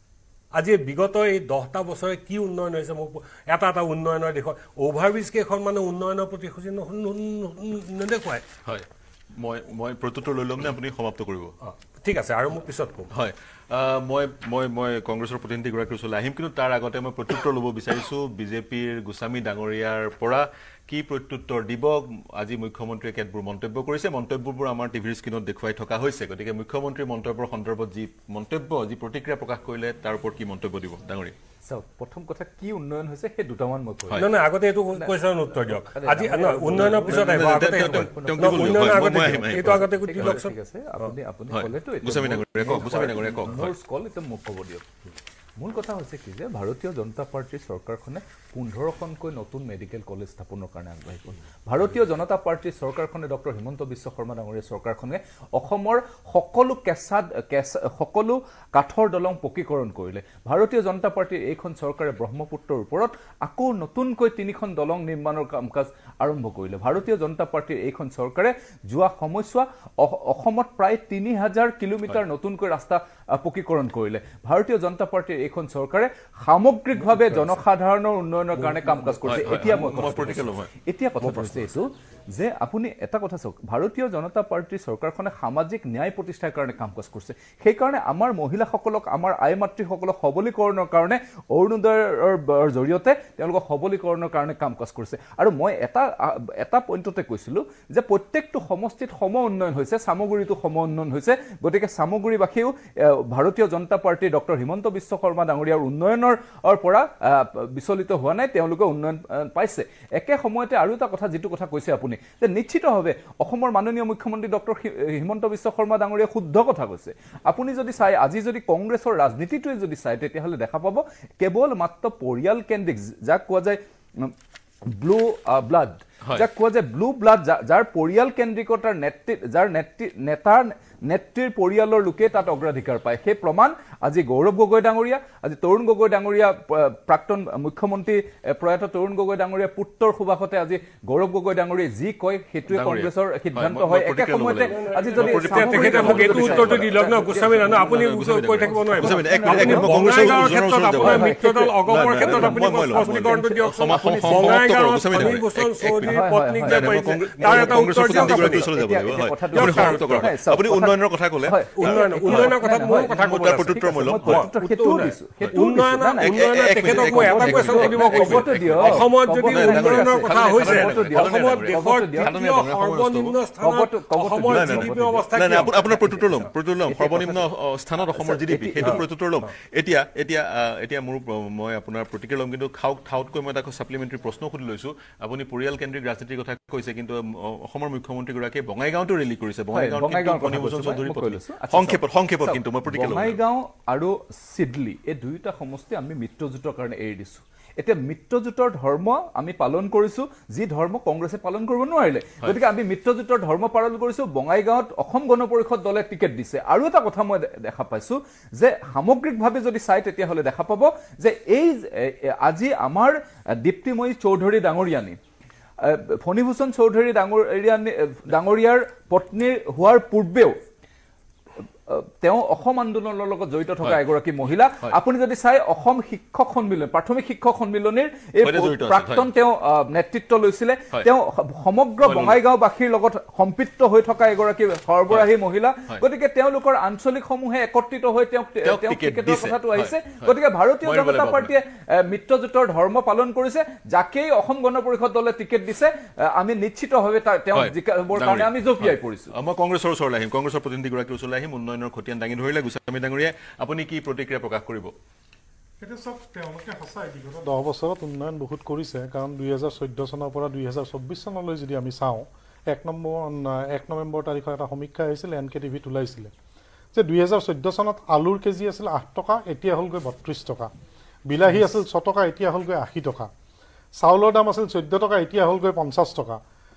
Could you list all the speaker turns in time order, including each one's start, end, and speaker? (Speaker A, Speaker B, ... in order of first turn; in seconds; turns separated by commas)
Speaker A: 0.5-8.4, Speaker B: 8.6-11.5, Speaker A: 11.6-13.1, Speaker B: 13.1-31.4, Speaker C: 31.6-34.4, Speaker A: 34.2-41.1, Speaker C: 34.9-44.9, Speaker B: 37.0-40.4, Speaker B: 41.5-43.7, Speaker C: 45.6-124.3, Speaker A: 77.0-77.5, Speaker A: 78.5-80.1, Speaker B: 79.2-80.7, Speaker B: 81.2-81.7, Speaker C: 124.9-154.6, Speaker B: 142.7-151.3, Speaker A: 144.6-158.7, Speaker B: 151.9-164.5, Speaker C: 156.0-172.3, Speaker A: 159.5-160.3, Speaker A: 161.7-175.8, Speaker B: 166.2-173.4, Speaker C: 173.6-177.5, Speaker B: 174.4-193.4, Speaker C: 178.0-179.0, Speaker C: 189.7-215.2, Speaker C: 215.8-220.6, Speaker C: 221.9-249.3, Speaker B: 228.4-229.3, Speaker B: 232.0-232.4, Speaker B: 238.6-241.5, Speaker B: 247.5-254.9, Speaker D: 255.8-266.3, Speaker D: 266.9-270.7, Speaker D: 271.3-273.3, Speaker D: 274.0-276.4